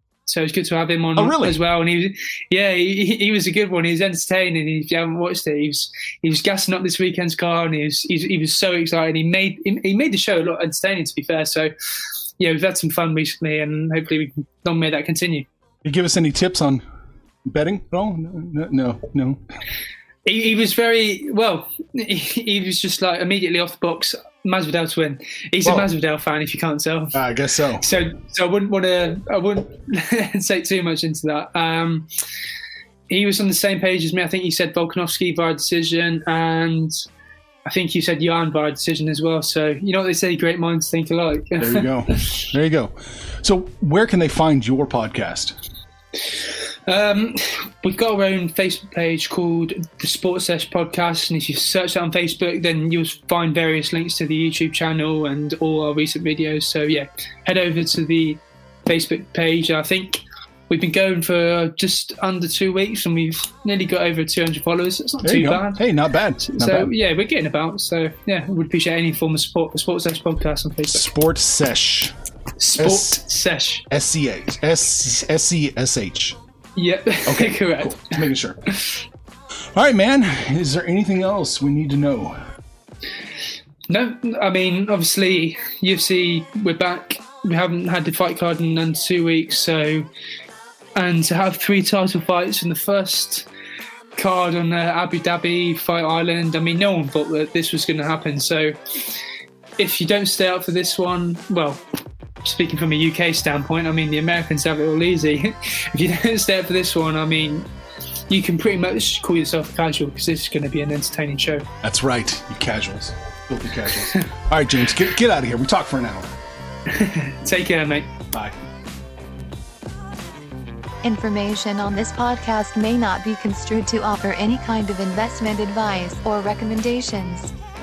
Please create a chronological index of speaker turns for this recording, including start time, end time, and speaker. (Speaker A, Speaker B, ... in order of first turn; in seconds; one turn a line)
Speaker A: 0.3-11.7
Speaker B: 1.2-1.6
Speaker A: 12.4-15.4
Speaker B: 15.8-16.8
Speaker B: 17.4-19.4
Speaker A: 20.3-27.2
Speaker B: 27.1-27.9
Speaker A: 27.8-32.1
Speaker A: 33.1-37.0
Speaker A: 37.7-42.4
Speaker B: 41.6-45.6
Speaker A: 46.9-65.9
Speaker B: 65.2-66.9
Speaker A: 66.4-71.1
Speaker B: 70.9-72.2
Speaker A: 72.6-73.8
Speaker B: 72.8-73.2
Speaker B: 73.9-76.4
Speaker A: 76.8-78.2
Speaker B: 77.2-78.6
Speaker A: 78.7-79.0
Speaker B: 79.7-82.4
Speaker A: 83.9-90.1
Speaker A: 91.0-93.5
Speaker A: 94.2-99.2
Speaker A: 99.8-101.8
Speaker A: 102.4-107.7
Speaker A: 108.3-111.7
Speaker B: 111.8-116.3
Speaker A: 116.9-118.1
Speaker C: 121.0-127.5